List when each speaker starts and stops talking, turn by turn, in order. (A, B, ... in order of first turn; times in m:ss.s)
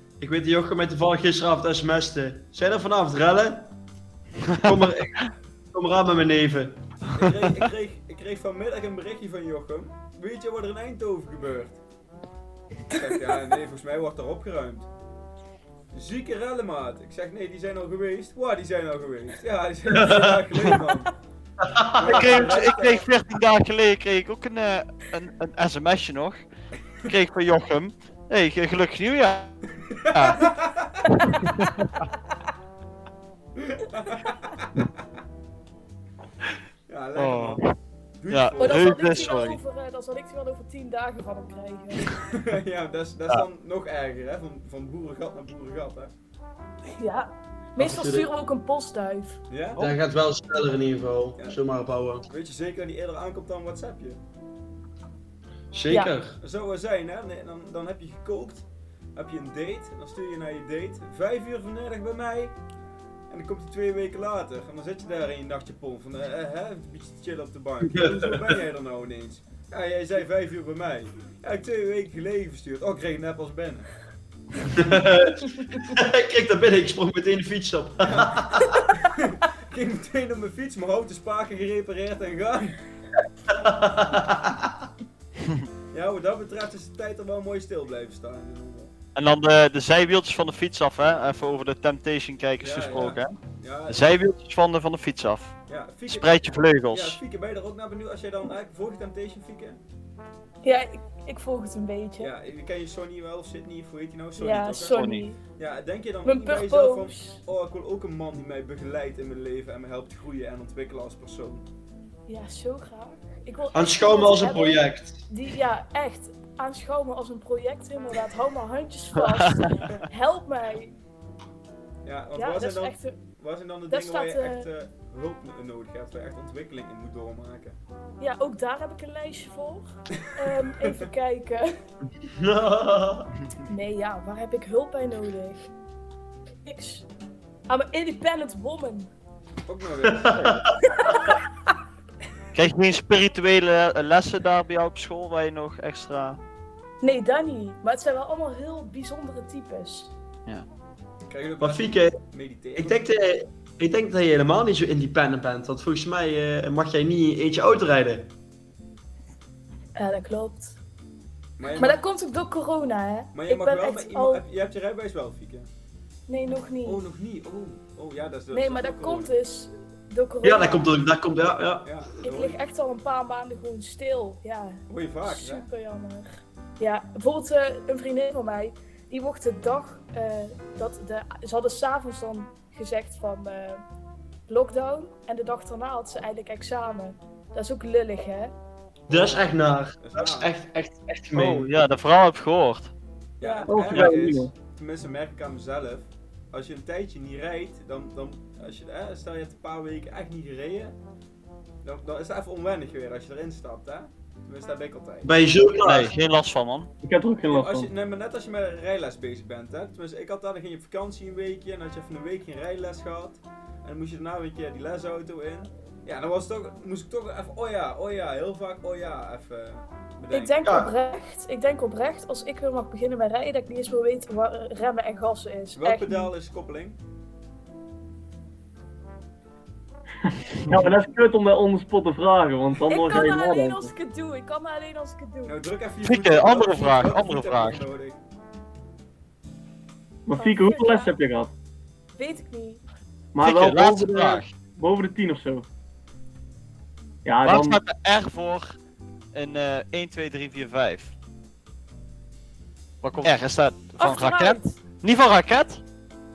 0:00.2-0:03.7 A
0:04.6-0:06.8 A
0:07.1-0:11.8 B
0:12.9-0:14.9 B
0:15.9-0:21.1 B
0:19.9-0:20.5 A
0:21.6-0:22.6 A
0:22.0-0:23.1 B
0:22.0-0:26.4 C
0:27.0-0:29.5 C
0:30.0-0:31.0 B
0:30.1-0:30.5 C
0:31.1-0:32.0 C
0:33.6-0:34.9 B
0:36.9-0:37.6 B
0:37.2-0:37.8 C
0:38.2-0:39.3 B
0:38.3-0:39.6 C
0:38.6-0:42.2 D
0:42.3-0:46.1 B
0:46.9-0:49.4 D
0:47.8-0:48.3 A
0:49.5-0:49.8 B
0:49.8-0:52.3 A
0:52.3-0:54.2 B
0:55.7-0:56.4 A
0:56.4-1:02.6 B
1:03.3-1:13.9 B
1:07.8-1:08.6 A
1:14.7-1:18.7 A
1:18.0-1:22.8 B
1:23.5-1:24.8 A
1:25.9-1:28.9 B
1:29.2-1:33.4 C
1:32.6-1:34.2 B
1:33.9-1:35.6 C
1:35.7-1:39.8 B
1:36.1-1:37.2 C
1:40.6-1:42.3 D
1:42.2-1:45.0 B
1:44.4-1:45.4 D
1:44.9-1:45.3 C
1:45.6-1:51.7 B
1:46.2-1:47.4 D
1:52.3-2:01.0 D
1:53.7-1:55.2 A
1:59.2-1:59.8 C
2:02.0-2:07.8 B
2:02.4-2:03.2 D
2:03.9-2:04.7 D
2:08.2-2:11.7 D
2:12.3-2:13.3 A
2:13.7-2:15.7 D
2:16.6-2:17.1 D
2:17.7-2:19.1 D
2:19.6-2:20.7 B
2:20.1-2:20.7 A
2:20.9-2:21.4 D
2:22.5-2:26.4 C
2:27.0-2:30.1 D
2:31.3-2:33.0 B
2:31.6-2:32.2 A
2:32.8-2:38.3 A
2:40.0-2:40.8 D
2:41.6-2:42.0 B
2:41.8-2:44.4 D
2:43.3-2:45.7 B
2:46.3-2:47.0 D
2:46.8-2:49.3 B
2:48.5-2:50.9 D
2:50.4-2:51.9 A
2:51.8-2:52.6 B
2:52.2-2:56.3 D
2:54.9-2:55.7 B
2:56.8-3:03.8 D
3:04.5-3:08.5 D
3:09.1-3:10.5 B
3:09.1-3:11.7 A
3:11.4-3:12.9 C
3:13.4-3:21.0 B
3:13.4-3:14.0 D
3:13.7-3:14.5 E
3:21.8-3:25.4 B
3:25.2-3:26.1 A
3:25.8-3:26.9 C
3:27.0-3:27.9 E
3:27.5-3:40.7 B
3:40.3-3:46.3 D
3:40.6-3:40.9 A
3:45.8-3:47.0 B
3:50.3-3:53.9 E
3:52.9-3:55.6 D
3:55.4-3:58.2 B
3:56.0-3:57.8 C
4:00.3-4:01.5 E
4:00.4-4:01.1 D
4:02.2-4:02.8 D
4:03.3-4:05.7 E
4:03.4-4:04.5 C
4:07.2-4:07.8 E
4:07.4-4:08.8 C
4:09.3-4:11.1 C
4:13.0-4:15.8 C
4:14.0-4:14.8 D